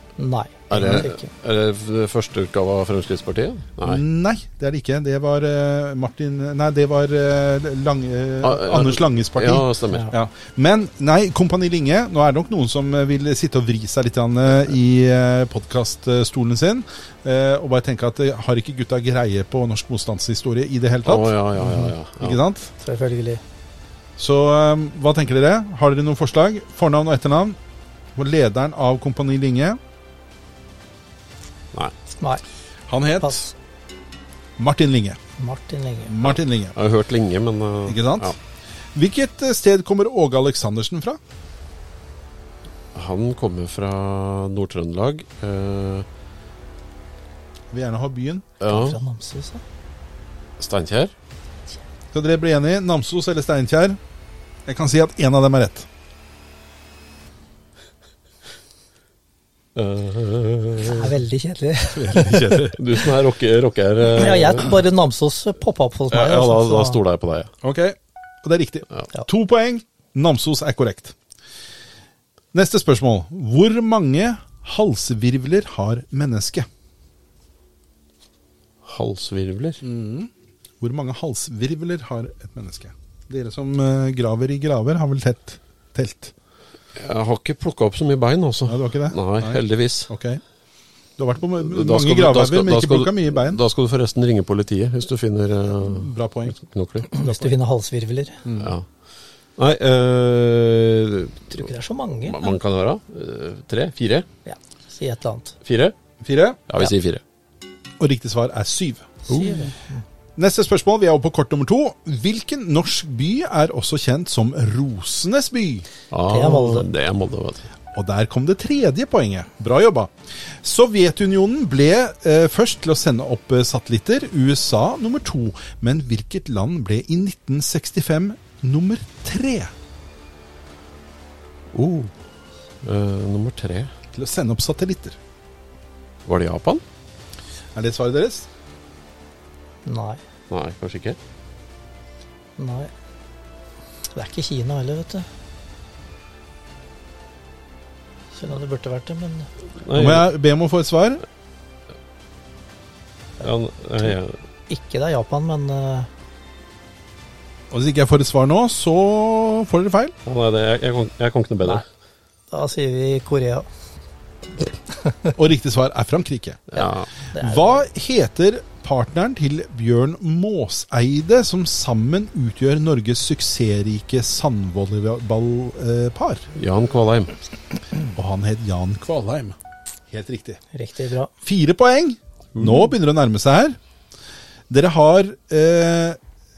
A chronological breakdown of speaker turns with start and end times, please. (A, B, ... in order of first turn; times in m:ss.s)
0:00.2-0:01.3 A
0:00.7-0:04.0 B
0:03.8-0:22.7 C
0:08.4-0:10.1 B
0:21.0-0:22.4 B
0:22.8-0:23.4 A
0:24.2-0:27.6 C
0:28.2-0:29.8 C
0:32.9-0:33.5 C
0:33.2-0:33.5 A
0:34.6-0:35.2 C
0:35.4-0:36.2 A
0:36.1-0:36.8 C
0:36.8-0:38.4 B
0:37.9-0:38.4 C
0:38.9-0:41.2 C
0:42.9-0:46.1 B
0:47.7-0:48.5 C
0:48.6-0:49.0 B
0:48.7-0:49.6 A
0:50.6-0:51.1 B
0:52.1-0:54.0 C
0:54.7-0:55.9 C
0:59.8-1:01.2 B
1:00.8-1:02.8 A
1:02.0-1:02.8 C
1:02.8-1:04.8 B
1:04.1-1:07.0 A
1:06.1-1:07.5 B
1:07.6-1:11.2 C
1:12.5-1:16.7 C
1:18.8-1:19.8 B
1:19.8-1:26.3 C
1:27.0-1:30.1 B
1:28.7-1:30.4 C
1:31.2-1:33.6 C
1:31.6-1:37.1 B
1:35.7-1:36.6 C
1:37.1-1:38.4 A
1:37.2-1:37.6 C
1:38.4-1:38.7 C
1:38.6-1:38.9 B
1:39.6-1:41.7 B
1:41.5-1:42.5 A
1:42.2-1:44.3 B
1:44.4-1:45.6 A
1:45.6-1:46.0 B
1:46.2-1:46.6 C
1:46.7-1:47.2 B
1:48.0-1:49.3 C
1:49.3-1:50.0 A
1:49.3-1:49.7 B
1:50.4-1:55.9 C
1:56.1-1:57.7 B
1:56.3-1:56.9 A
1:57.9-2:09.7 C
2:11.7-2:12.2 B
2:12.8-2:13.9 B
2:14.1-2:15.2 C
2:16.3-2:16.8 B
2:17.8-2:18.5 C
2:19.8-2:20.2 A
2:20.5-2:21.2 B
2:22.6-2:22.9 A
2:24.2-2:25.3 A
2:28.4-2:29.5 A
2:29.8-2:30.3 B
2:29.9-2:31.2 C
2:33.4-2:34.4 B
2:34.7-2:36.1 A
2:37.7-2:40.1 C
2:40.2-2:41.8 B
2:42.5-2:43.7 A
2:45.0-2:45.3 A
2:45.4-2:46.7 C
2:46.7-2:47.1 B
2:46.8-2:47.8 A
2:47.3-2:56.5 C
2:56.6-2:57.4 B
2:58.0-2:59.6 C
3:00.1-3:00.6 C
3:00.7-3:01.3 A
3:01.4-3:03.8 C
3:02.6-3:02.9 B
3:04.7-3:06.2 C